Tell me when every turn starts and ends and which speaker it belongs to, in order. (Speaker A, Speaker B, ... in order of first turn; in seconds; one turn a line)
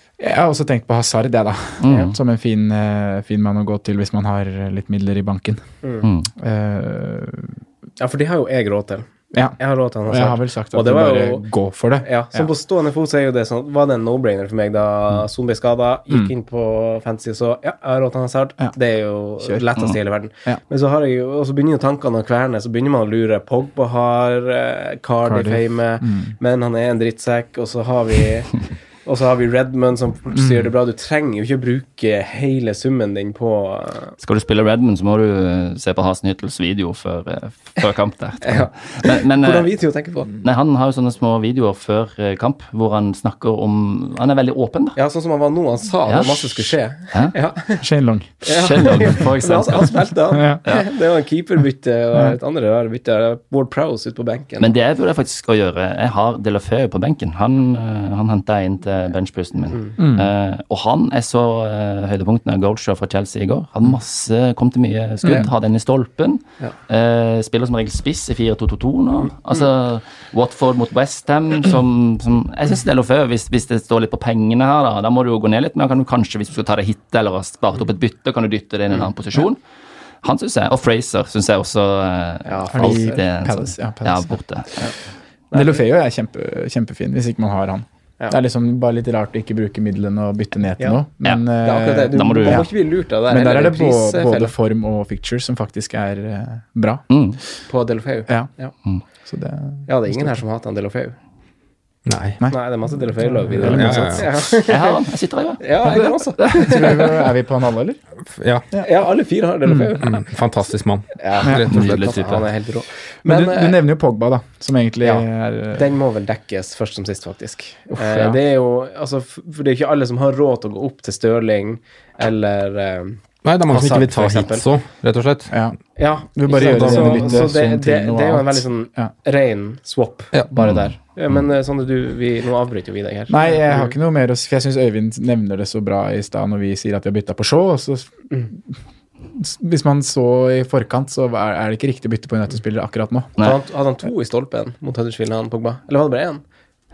Speaker A: 0.2-5.7
Speaker B: 1.8-2.1
Speaker B: 6.0-6.3
Speaker A: 6.4-7.6
Speaker C: 8.0-11.4
Speaker A: 9.3-12.5
Speaker C: 12.0-34.1
Speaker A: 19.4-19.6
Speaker A: 25.2-26.4
Speaker A: 30.3-30.7
Speaker B: 34.2-39.8
Speaker C: 38.4-40.3
Speaker B: 40.3-45.0
Speaker C: 45.0-47.8
Speaker B: 46.0-47.4
Speaker A: 47.8-48.4
Speaker C: 48.4-54.7
Speaker B: 48.5-50.1
Speaker A: 50.3-50.6
Speaker B: 54.6-79.6
Speaker A: 60.0-60.3
Speaker A: 65.2-65.5
Speaker B: 80.2-84.7
Speaker C: 82.5-83.2
Speaker A: 82.7-84.9
Speaker C: 85.5-85.8
Speaker A: 85.5-92.7
Speaker C: 91.6-94.5
Speaker B: 92.1-92.7
Speaker A: 93.2-97.2
Speaker B: 97.1-97.4
Speaker C: 97.7-98.7
Speaker A: 98.3-98.5
Speaker A: 99.2-100.4
Speaker C: 99.9-101.1
Speaker D: 102.0-102.5
Speaker A: 102.4-104.3
Speaker C: 102.5-105.0
Speaker D: 103.5-104.5
Speaker B: 104.7-106.6
Speaker C: 105.6-107.1
Speaker A: 105.8-108.0
Speaker D: 108.3-108.6
Speaker C: 108.8-110.2
Speaker A: 109.6-109.9
Speaker D: 110.0-112.3
Speaker C: 111.2-113.8
Speaker A: 111.4-111.7
Speaker B: 111.7-112.4
Speaker A: 113.2-115.9
Speaker C: 115.0-124.7
Speaker A: 117.9-118.4
Speaker D: 123.4-125.6
Speaker A: 125.5-129.1
Speaker C: 126.0-133.9
Speaker D: 126.5-127.6
Speaker A: 133.3-138.8
Speaker A: 139.3-143.3
Speaker C: 143.4-146.4